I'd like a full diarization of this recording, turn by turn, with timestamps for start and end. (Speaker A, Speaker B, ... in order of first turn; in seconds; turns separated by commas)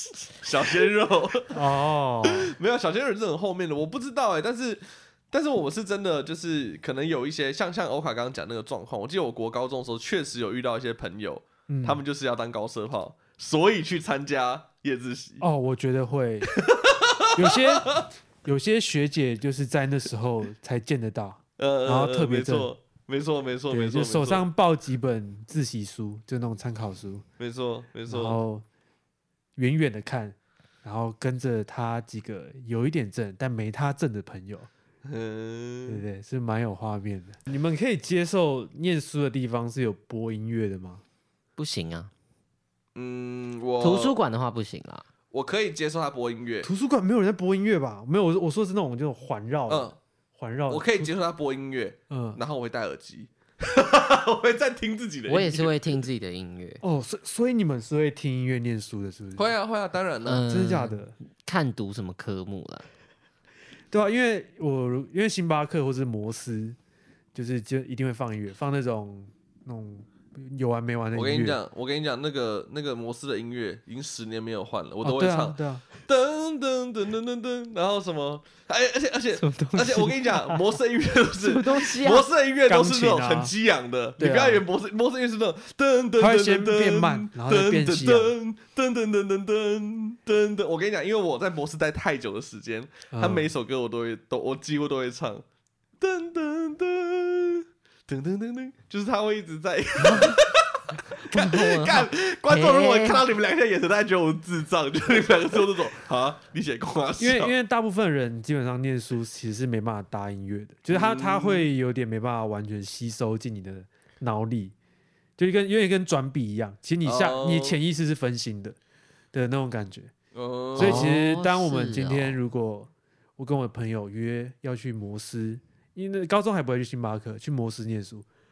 Speaker A: 0.3-1.7, Speaker B: 1.5-2.5, Speaker A: 2.2-15.4, Speaker B: 11.7-12.0, Speaker B: 15.4-16.6, Speaker A: 16.5-18.1, Speaker B: 17.4-22.7, Speaker A: 21.6-24.4, Speaker B: 23.7-27.2, Speaker A: 27.4-28.4, Speaker B: 28.1-28.6, Speaker B: 29.6-34.7, Speaker A: 35.0-36.0, Speaker B: 35.9-41.0, Speaker C: 41.6-42.1, Speaker A: 43.0-44.2, Speaker C: 43.8-45.0, Speaker A: 45.3-46.7, Speaker B: 46.6-51.1, Speaker A: 49.7-50.0, Speaker A: 50.7-55.9, Speaker B: 52.1-52.4, Speaker C: 55.3-56.8, Speaker B: 56.8-59.5, Speaker A: 59.4-60.5, Speaker C: 60.2-62.9, Speaker B: 60.5-61.1, Speaker B: 63.9-66.8, Speaker B: 67.3-71.6, Speaker A: 71.2-95.5, Speaker B: 75.0-75.9, Speaker B: 79.4-80.7, Speaker C: 81.4-82.3, Speaker B: 82.7-83.5, Speaker B: 84.2-84.6, Speaker B: 86.2-88.3, Speaker B: 93.1-93.5, Speaker A: 96.0-107.5, Speaker C: 100.0-100.4, Speaker C: 101.2-103.3, Speaker B: 107.2-114.8, Speaker A: 110.9-111.7, Speaker B: 115.4-118.8, Speaker A: 117.0-117.8, Speaker B: 119.3-120.1, Speaker A: 120.3-121.1, Speaker B: 120.8-128.3, Speaker C: 120.8-122.4